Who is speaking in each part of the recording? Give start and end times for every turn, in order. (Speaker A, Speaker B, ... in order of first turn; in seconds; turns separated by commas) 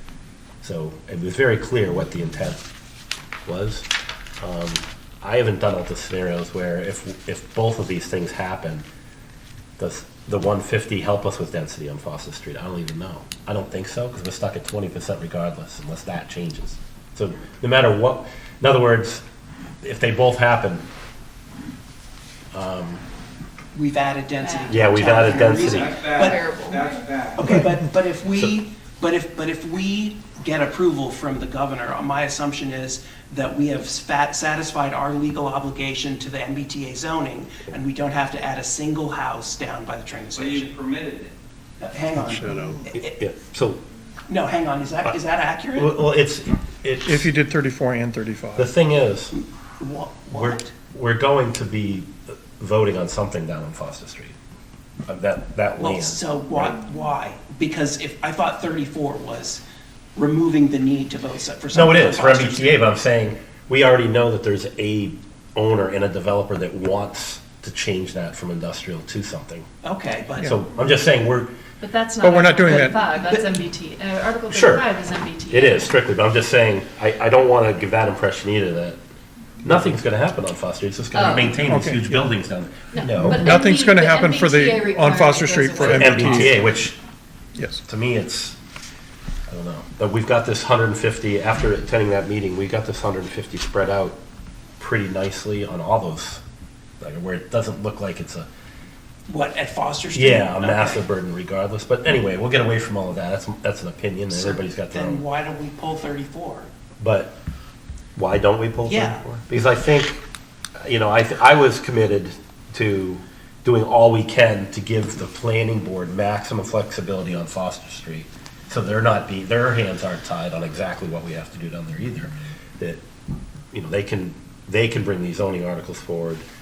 Speaker A: 0.6-2.6, Speaker A: 3.5-3.9, Speaker A: 4.4-8.8, Speaker A: 9.8-19.2, Speaker A: 19.8-20.8, Speaker A: 22.5-23.0, Speaker B: 23.7-26.5, Speaker C: 24.4-27.0, Speaker A: 24.7-25.9, Speaker D: 25.6-27.5, Speaker B: 27.3-40.8, Speaker D: 40.3-41.3, Speaker B: 41.8-43.2, Speaker E: 42.1-42.9, Speaker A: 42.9-43.8, Speaker B: 44.3-45.9, Speaker A: 45.7-47.3, Speaker E: 47.0-48.7, Speaker A: 48.5-49.3, Speaker B: 49.3-50.7, Speaker A: 50.3-54.3, Speaker A: 55.1-56.8, Speaker B: 55.8-59.6, Speaker B: 60.1-62.8, Speaker A: 61.7-69.7, Speaker B: 69.8-70.6, Speaker A: 70.4-71.5, Speaker C: 71.8-76.0, Speaker E: 72.2-73.0, Speaker B: 72.7-73.6, Speaker A: 74.5-74.9, Speaker A: 75.5-79.0, Speaker A: 79.6-83.5, Speaker C: 81.1-81.6, Speaker E: 81.6-82.3, Speaker C: 82.9-86.5, Speaker E: 83.2-86.6, Speaker A: 85.8-87.0, Speaker E: 87.5-87.8, Speaker A: 87.8-88.6, Speaker A: 89.5-94.2, Speaker A: 94.8-96.4, Speaker A: 97.0-98.5, Speaker B: 99.3-101.0, Speaker A: 100.1-105.2, Speaker B: 104.3-106.7, Speaker A: 107.0-107.3, Speaker A: 108.2-110.2, Speaker B: 108.8-109.2, Speaker A: 110.8-123.0, Speaker A: 123.7-126.4